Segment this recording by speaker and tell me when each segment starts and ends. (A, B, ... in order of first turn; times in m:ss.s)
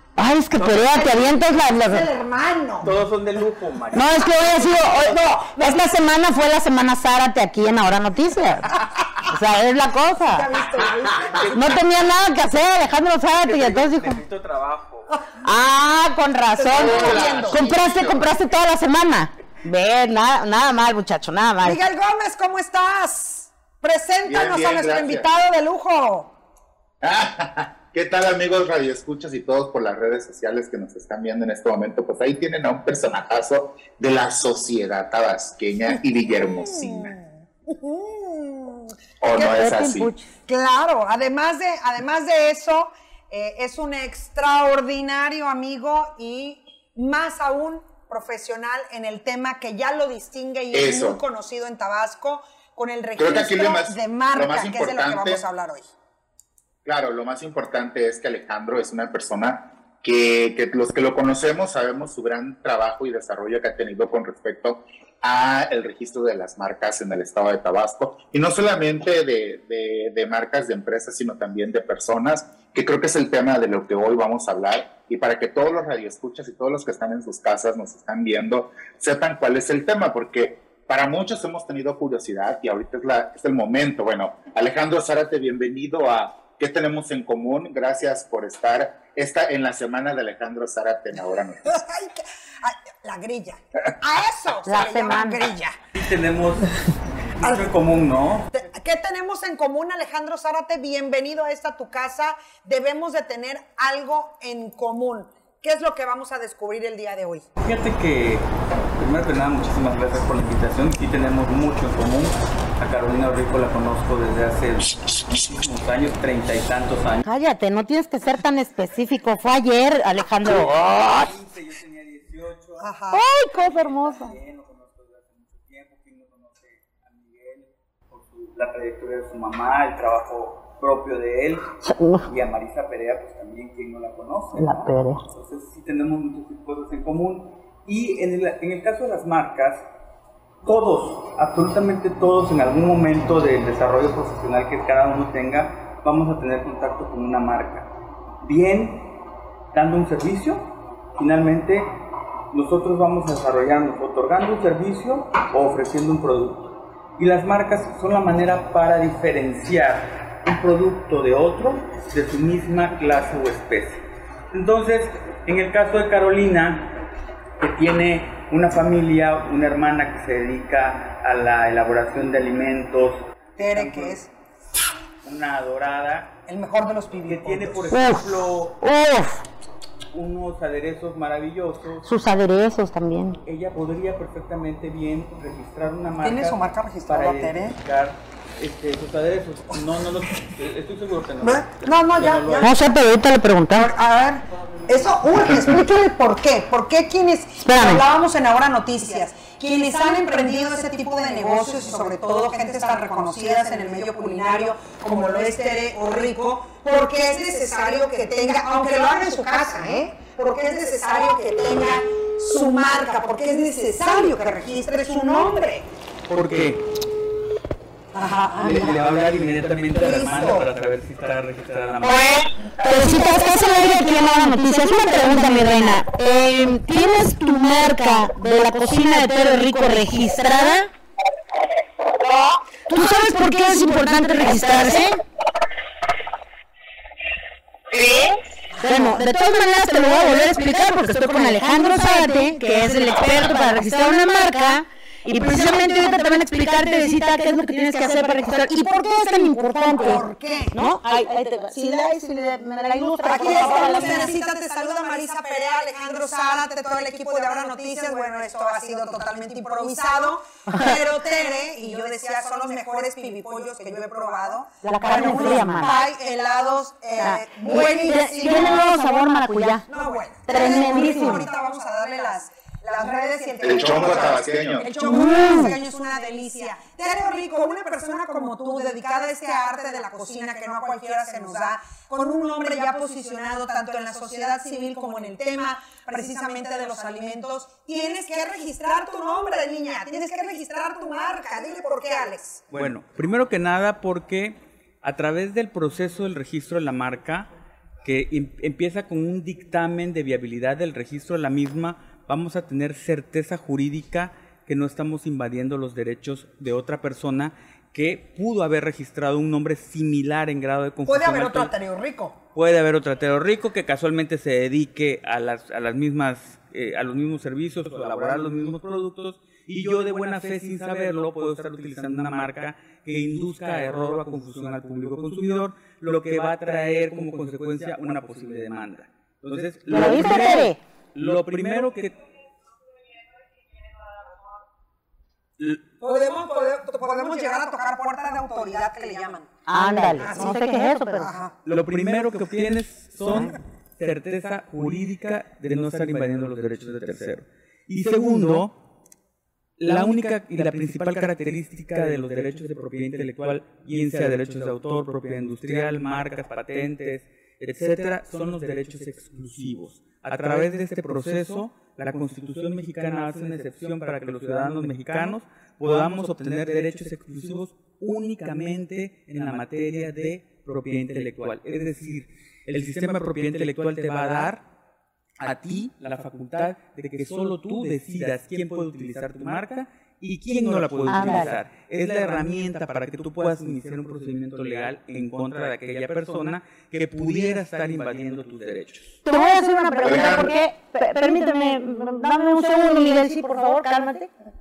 0:00.2-0:02.1 A
0:00.6-0:01.2 B
0:01.8-0:02.9 C
0:02.8-0:05.2 B
0:03.9-0:10.5 A
0:10.3-0:11.6 C
0:11.5-0:14.2 A
0:13.4-0:15.1 B
0:15.1-0:15.4 C
0:15.4-0:21.8 A
0:16.6-0:17.6 C
0:16.7-0:18.3 D
0:21.6-0:26.3 C
0:24.2-0:25.3 D
0:27.0-0:37.1 D
0:36.0-0:39.6 C
0:39.2-0:40.1 D
0:39.4-0:40.3 A
0:40.4-0:55.9 C
0:50.7-0:51.2 D
0:53.2-0:55.4 D
0:56.8-1:31.8 D
1:31.6-1:35.8 C
1:34.6-1:35.5 A
1:35.9-1:38.5 B
1:37.4-1:37.7 C
1:38.5-1:47.4 C
1:47.6-1:57.2 B
1:57.2-2:01.3 A
2:00.5-2:02.9 B
2:02.8-2:03.2 C
2:03.1-2:04.3 A
2:03.5-2:11.7 B
2:11.8-2:12.3 A
2:12.2-2:19.8 B
2:14.5-2:15.2 A
2:20.6-2:27.9 B
2:28.4-2:29.1 B
2:29.7-2:30.6 B
2:31.2-2:31.9 B
2:32.5-2:46.9 B
2:47.6-2:54.2 B
2:53.6-2:54.3 C
2:55.2-2:56.3 B
2:56.5-2:57.9 C
2:57.3-2:58.8 B
2:57.9-2:59.4 A
3:00.1-3:02.0 B
3:02.0-3:03.4 A
3:03.4-3:12.7 B
3:06.2-3:07.8 C
3:11.4-3:12.7 C
3:12.6-3:13.9 A
3:13.7-3:35.9 C
3:17.6-3:18.0 A
3:36.3-3:36.8 B
3:38.1-3:39.0 C
3:38.6-3:42.4 B
3:40.0-3:40.6 C
3:42.8-3:50.9 A
3:52.9-3:55.2 A
3:57.9-4:14.3 A
4:09.9-4:10.7 C
4:13.2-4:28.8 C
4:24.8-4:25.9 A
4:27.2-4:29.8 A
4:29.9-4:52.6 C
4:30.4-4:31.5 A
4:33.6-4:34.9 D
4:35.0-4:35.8 A
4:52.7-4:57.5 B
4:58.0-5:11.7 B
5:11.0-5:12.4 C
5:12.5-5:32.2 B
5:29.9-5:30.8 A
5:36.0-5:39.5 C
5:39.7-5:41.3 A
5:40.2-5:41.5 C
5:41.6-5:48.8 B
5:49.8-6:14.6 B
6:15.4-6:29.2 B
6:21.1-6:21.5 A
6:29.2-6:34.3 A
6:30.0-6:30.5 D